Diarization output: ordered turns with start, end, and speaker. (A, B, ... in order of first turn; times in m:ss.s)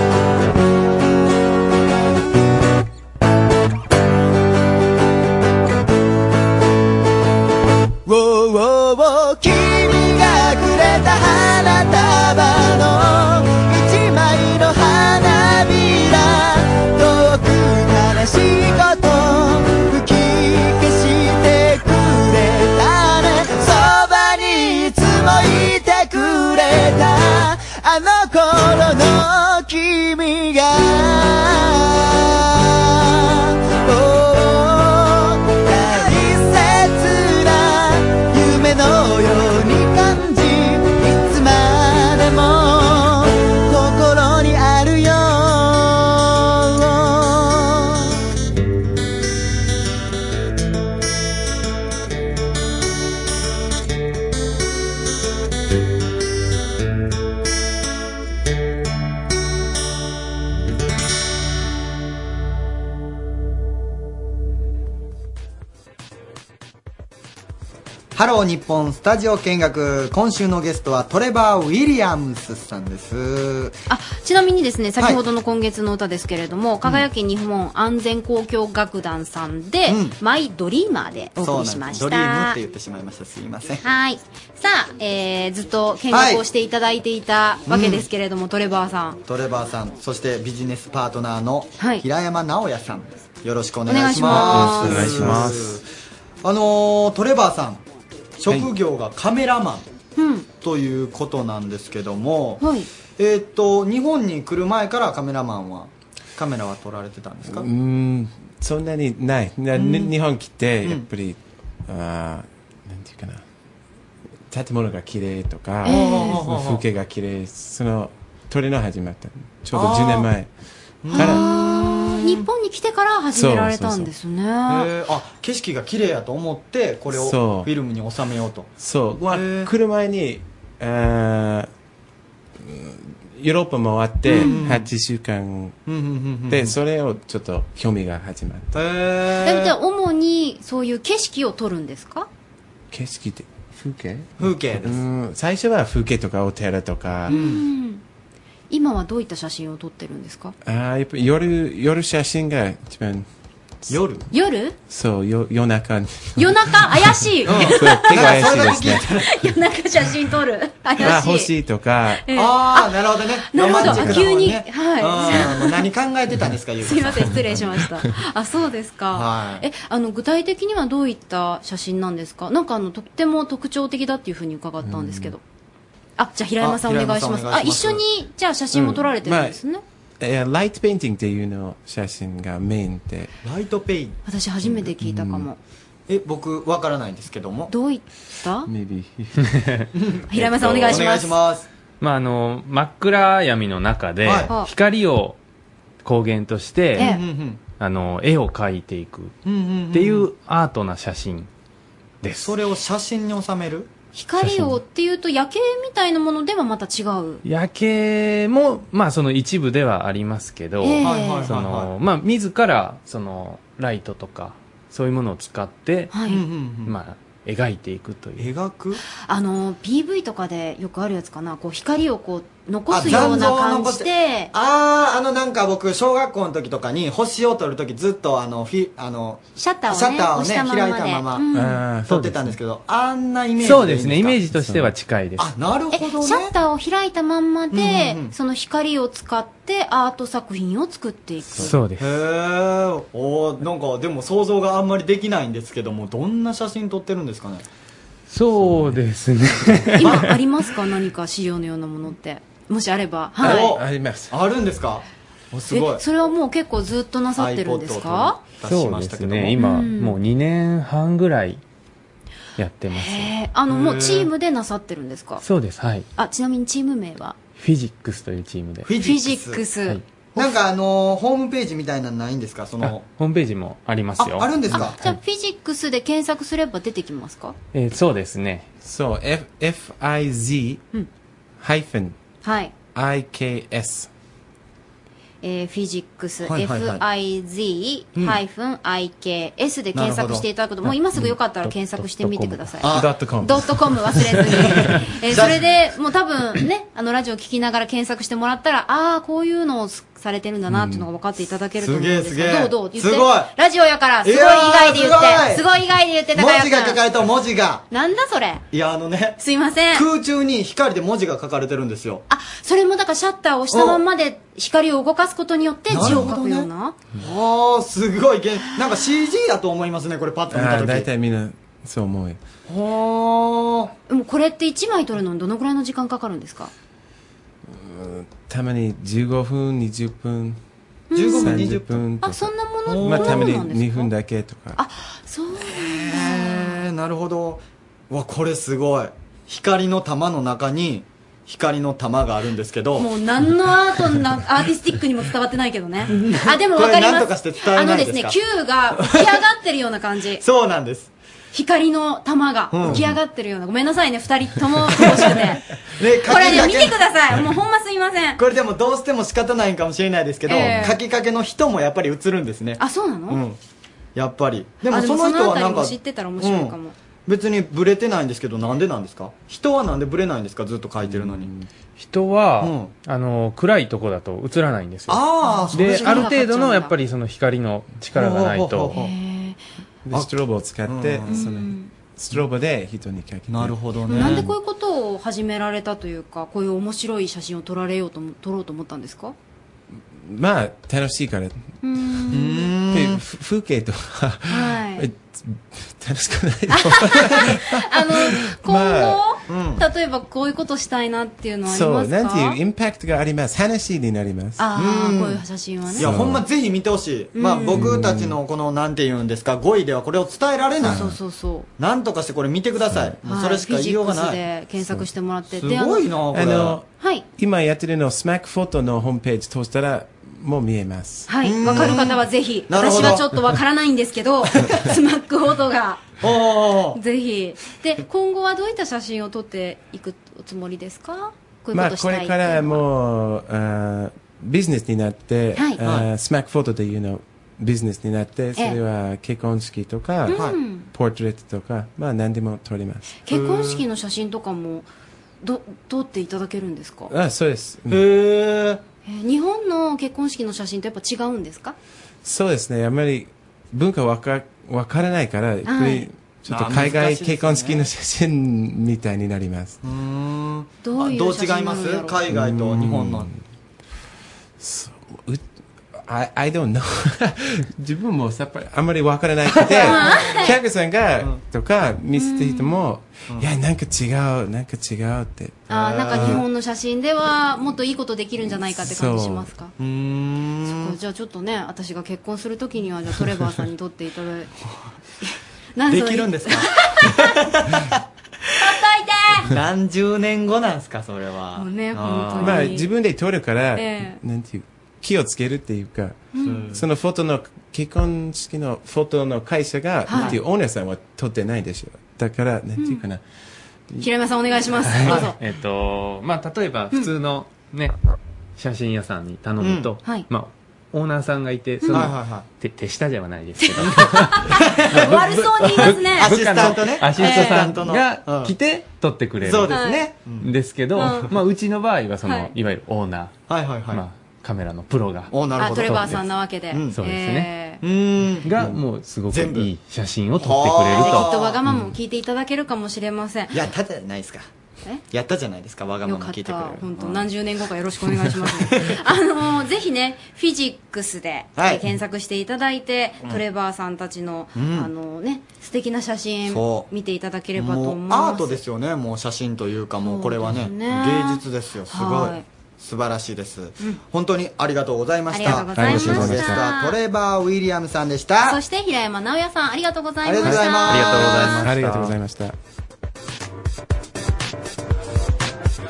0:08.0-0:48.2 A
1:08.1-1:13.8 B
1:13.9-1:22.6 C
1:19.8-1:20.2 B
1:21.4-1:23.8 B
1:23.8-1:29.2 C
1:26.1-1:26.4 B
1:27.7-1:28.1 B
1:29.2-1:35.8 B
1:31.8-1:32.0 C
1:33.9-1:35.4 C
1:34.3-1:35.8 D
1:36.4-1:37.8 B
1:38.4-1:39.9 B
1:40.2-1:40.5 C
1:40.6-1:42.6 B
1:42.6-1:42.9 C
1:43.2-1:47.7 B
1:47.4-1:53.4 D
1:49.7-1:50.1 B
1:54.5-2:00.5 D
1:55.8-1:56.4 C
1:55.8-1:56.8 B
1:59.7-2:00.3 B
2:01.0-2:02.4 B
2:01.1-2:04.9 C
2:01.2-2:01.4 D
2:03.3-2:04.1 D
2:04.7-2:08.7 B
2:07.1-2:07.7 D
2:08.8-2:11.7 D
2:09.3-2:09.7 B
2:12.6-2:15.8 D
2:14.2-2:14.9 B
2:14.3-2:14.6 C
2:15.8-2:16.7 B
2:16.5-2:18.7 D
2:18.7-2:19.7 B
2:19.4-2:22.3 C
2:22.9-2:27.4 D
2:24.4-2:25.0 B
2:27.3-2:28.0 C
2:27.3-2:27.6 B
2:28.7-2:30.5 C
2:30.6-2:33.2 D
2:33.9-2:34.3 B
2:34.3-2:34.7 C
2:34.9-2:39.0 D
2:36.4-2:41.5 C
2:37.4-2:39.3 B
2:41.0-2:42.3 D
2:42.2-2:42.9 C
2:42.3-2:47.6 B
2:43.5-2:45.8 C
2:43.8-2:44.2 D
2:46.8-2:55.4 C
2:49.1-2:49.6 B
2:54.8-2:55.3 D
2:56.2-2:59.8 C
2:56.6-2:58.0 B
2:58.7-2:59.6 D
3:00.2-3:03.3 D
3:03.4-3:04.2 B
3:04.2-3:05.6 C
3:04.6-3:05.5 D
3:06.1-3:07.7 B
3:07.7-3:08.7 C
3:08.7-3:09.4 D
3:09.4-3:09.8 E
3:09.9-3:11.6 B
3:10.3-3:11.4 C
3:12.0-3:15.4 E
3:14.2-3:14.5 B
3:16.0-3:17.1 E
3:17.0-3:17.2 C
3:17.0-3:17.6 B
3:17.7-3:19.3 E
3:19.4-3:20.3 B
3:19.9-3:21.5 E
3:22.2-3:22.6 E
3:22.4-3:23.9 B
3:24.1-3:27.4 C
3:24.4-3:24.8 E
3:27.4-3:36.2 E
3:30.8-3:31.5 C
3:31.0-3:31.9 B
3:36.1-3:36.4 C
3:36.3-3:37.0 B
3:36.8-3:38.5 E
3:38.4-3:39.0 B
3:39.2-3:44.5 C
3:42.9-3:51.5 B
3:49.6-3:51.8 C
3:51.5-3:52.1 D
3:52.1-3:54.4 B
3:52.1-3:52.5 E
3:53.6-3:55.5 E
3:54.5-3:54.9 D
3:55.4-3:56.5 B
3:55.9-4:01.8 C
3:57.7-3:58.3 B
4:01.6-4:02.1 E
4:02.0-4:07.6 B
4:08.3-4:10.3 E
4:08.6-4:09.0 D
4:10.0-4:13.7 C
4:13.4-4:16.0 B
4:13.4-4:14.3 D
4:15.7-4:18.4 C
4:17.4-4:19.6 B
4:18.6-4:21.6 E
4:19.6-4:20.2 C
4:22.6-4:23.4 E
4:22.9-4:25.4 C
4:23.7-4:24.3 B
4:25.4-4:26.1 E
4:26.1-4:27.4 C
4:27.6-4:28.9 E
4:28.8-4:29.6 B
4:29.0-4:30.5 C
4:30.3-4:33.0 B
4:32.8-4:34.8 E
4:34.2-4:35.0 B
4:34.7-4:37.6 C
4:37.7-4:38.7 E
4:38.8-4:40.8 D
4:41.6-4:42.1 D
4:42.4-4:42.7 C
4:42.9-4:44.1 D
4:45.4-5:07.0 C
4:46.4-4:47.0 B
4:49.9-4:50.4 B
4:51.7-4:52.6 E
4:52.8-4:53.1 B
4:52.9-4:53.9 D
4:55.2-4:55.6 B
5:00.7-5:01.0 D
5:01.8-5:03.5 B
5:04.2-5:05.7 B
5:06.3-5:07.8 B
5:07.9-5:08.6 C
5:08.7-5:09.4 B
5:09.4-5:10.0 C
5:09.9-5:12.2 B
5:12.3-5:17.0 C
5:13.7-5:14.0 B
5:15.9-5:21.1 B
5:15.9-5:16.3 D
5:20.5-5:22.4 D
5:22.6-5:23.9 B
5:24.1-5:26.7 C
5:27.7-5:30.6 D
5:31.1-5:34.1 C
5:31.1-5:32.0 B
5:31.3-5:34.8 D
5:32.8-5:33.6 B
5:34.7-5:36.8 C
5:35.6-5:43.1 B
5:43.0-5:50.4 C
5:46.1-5:48.4 B
5:50.4-5:51.1 B
5:51.5-5:55.6 C
5:52.7-5:53.1 B
5:55.0-5:55.4 B
5:56.0-5:57.0 B
5:56.3-5:58.4 C
5:58.4-6:03.6 B
6:00.5-6:01.0 C
6:02.8-6:03.4 C
6:04.1-6:11.5 B
6:04.9-6:06.9 C
6:11.0-6:11.7 D
6:12.0-6:19.0 E
6:12.6-6:12.9 B
6:15.1-6:16.3 B
6:15.4-6:16.9 C
6:18.1-6:19.1 B
6:18.9-6:19.6 C
6:20.0-6:24.5 D
6:20.8-6:21.4 B
6:21.3-6:21.9 C
6:23.5-6:24.5 B
6:24.1-6:29.3 C
6:30.1-6:31.7 D
6:31.8-6:32.7 C
6:32.3-6:33.2 B
6:32.9-6:39.2 D
6:34.5-6:35.1 C
6:36.7-6:42.6 C
6:39.5-6:39.8 B
6:41.6-6:44.6 D
6:44.6-6:46.2 C
6:44.7-6:51.1 B
6:45.9-6:46.4 D
6:47.3-6:48.0 C
6:47.7-6:48.4 D
6:50.8-6:51.7 C
6:50.8-6:51.1 D
6:51.8-6:56.8 B
6:53.2-6:56.0 C
6:56.3-7:01.9 D
6:57.0-6:57.2 C
7:01.3-7:06.1 C
7:01.4-7:03.3 B
7:06.2-7:07.0 B
7:06.9-7:12.8 C
7:11.7-7:23.2 D
7:15.5-7:15.8 C
7:15.8-7:16.0 B
7:20.3-7:20.9 C
7:20.3-7:20.6 B
7:23.2-7:24.9 C
7:23.3-7:23.8 B
7:25.4-7:27.1 C
7:27.1-7:28.0 D
7:27.9-7:28.8 B
7:29.0-7:31.8 C
7:32.2-7:39.8 D
7:35.6-7:36.1 C
7:36.5-7:37.9 B
7:39.8-7:43.3 B
7:40.8-7:42.2 C
7:42.3-7:43.4 D
7:44.6-7:56.4 D
7:49.7-7:50.6 C
7:49.7-7:50.2 B
7:52.2-7:52.8 C
7:55.7-7:56.4 B
7:55.7-7:59.7 C
7:58.8-7:59.5 D
7:59.8-8:01.0 B
8:00.7-8:04.5 C
8:05.8-8:07.2 C
8:05.9-8:08.0 B
8:08.6-8:09.5 C
8:09.4-8:12.7 B
8:11.6-8:12.8 C
8:12.4-8:23.2 D
8:13.7-8:14.2 C
8:16.3-8:16.7 C
8:16.4-8:16.8 B
8:20.0-8:20.4 C
8:20.1-8:20.4 B
8:22.8-8:23.0 C
8:24.0-8:25.4 C
8:24.9-8:27.9 E
8:28.6-8:39.8 E
8:29.6-8:29.9 B
8:31.8-8:32.1 C
8:31.9-8:32.4 B
8:33.6-8:37.6 C
8:34.6-8:35.2 B
8:36.1-8:38.5 B
8:39.4-8:41.3 B
8:39.7-8:40.0 C
8:40.4-8:43.4 E
8:40.9-8:41.3 C
8:42.2-8:42.5 C
8:43.5-8:44.0 B
8:43.9-8:46.3 E
8:45.3-8:47.0 B
8:45.6-8:47.8 C
8:46.9-8:47.5 E
8:47.8-8:48.8 B
8:48.4-8:51.3 E
8:49.3-8:49.7 B
8:50.4-8:51.6 B
8:50.9-8:53.6 C
8:53.5-8:54.5 B
8:55.1-8:57.3 B
8:56.0-9:08.6 C
8:58.1-8:59.0 B
9:01.6-9:01.9 B
9:04.5-9:04.9 B
9:06.5-9:06.9 B
9:07.6-9:18.6 B
9:10.0-9:12.4 C
9:15.3-9:17.0 C
9:15.4-9:16.6 D
9:18.4-9:21.7 C
9:20.2-9:21.7 B
9:20.4-9:22.5 D
9:21.1-9:22.1 E